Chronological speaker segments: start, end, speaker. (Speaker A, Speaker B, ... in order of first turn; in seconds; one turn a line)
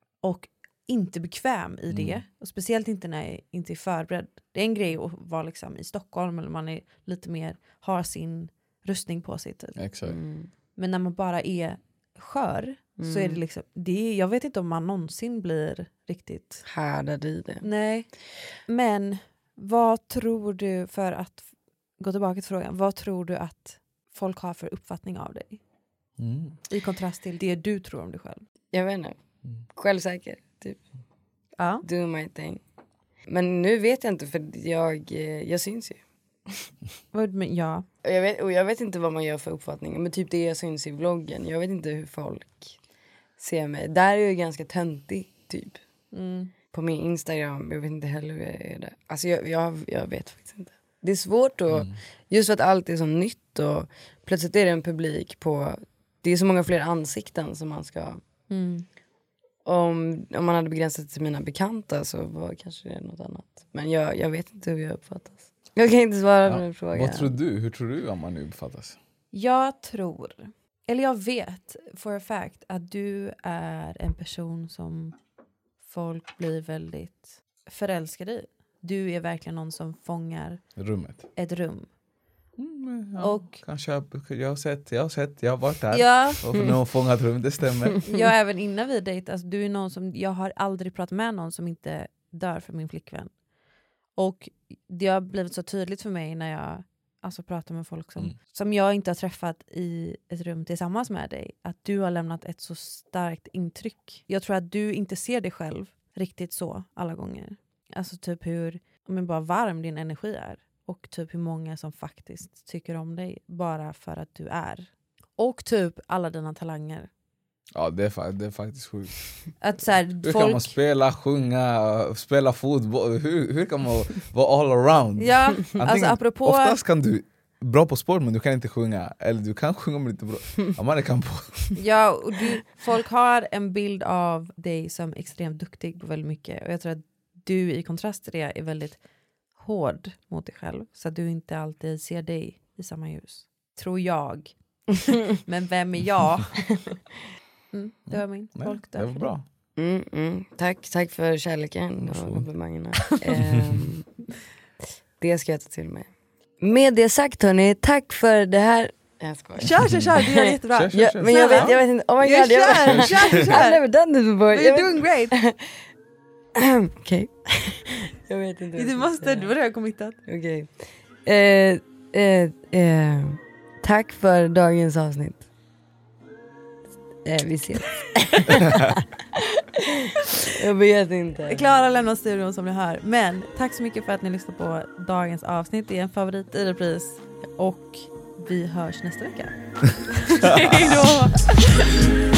Speaker A: 0.2-9.8
Speaker B: 1.9-2.2
Speaker B: 9.8-10.2
Speaker C: 10.1-10.5
Speaker A: 10.8-16.6
Speaker C: 13.0-13.4
Speaker C: 16.6-17.7
Speaker A: 17.6-18.1
Speaker A: 18.7-21.5
Speaker A: 22.0-25.6
Speaker B: 26.2-26.6
Speaker A: 26.7-28.4
Speaker C: 28.7-29.2
Speaker C: 29.7-30.8
Speaker A: 31.6-31.8
Speaker C: 31.8-32.6
Speaker C: 33.3-36.7
Speaker A: 37.1-37.9
Speaker C: 38.0-42.8
Speaker C: 43.4-45.8
Speaker A: 46.1-46.5
Speaker C: 46.7-58.2
Speaker A: 58.5-58.9
Speaker C: 59.6-67.3
Speaker B: 66.5-69.0
Speaker A: 69.3-75.2
Speaker A: 75.8-80.6
Speaker B: 80.8-81.3
Speaker A: 81.4-81.9
Speaker B: 82.6-88.0
Speaker A: 83.2-83.6
Speaker A: 85.9-86.7
Speaker C: 88.0-88.3
Speaker A: 88.0-93.3
Speaker A: 94.2-117.1
Speaker B: 117.8-119.2
Speaker A: 119.6-120.7
Speaker B: 120.2-131.7
Speaker A: 125.2-126.8
Speaker A: 131.8-139.0
Speaker A: 139.6-146.8
Speaker A: 147.7-149.3
Speaker B: 148.1-149.4
Speaker C: 149.8-154.1
Speaker B: 152.0-152.4
Speaker B: 153.3-153.9
Speaker C: 155.2-156.1
Speaker C: 156.6-165.7
Speaker A: 159.6-163.8
Speaker B: 160.7-161.8
Speaker A: 164.5-165.3
Speaker C: 166.6-169.5
Speaker A: 168.8-170.2
Speaker C: 170.3-170.7
Speaker C: 171.2-175.4
Speaker C: 177.2-181.7
Speaker A: 181.5-189.6
Speaker A: 190.1-192.0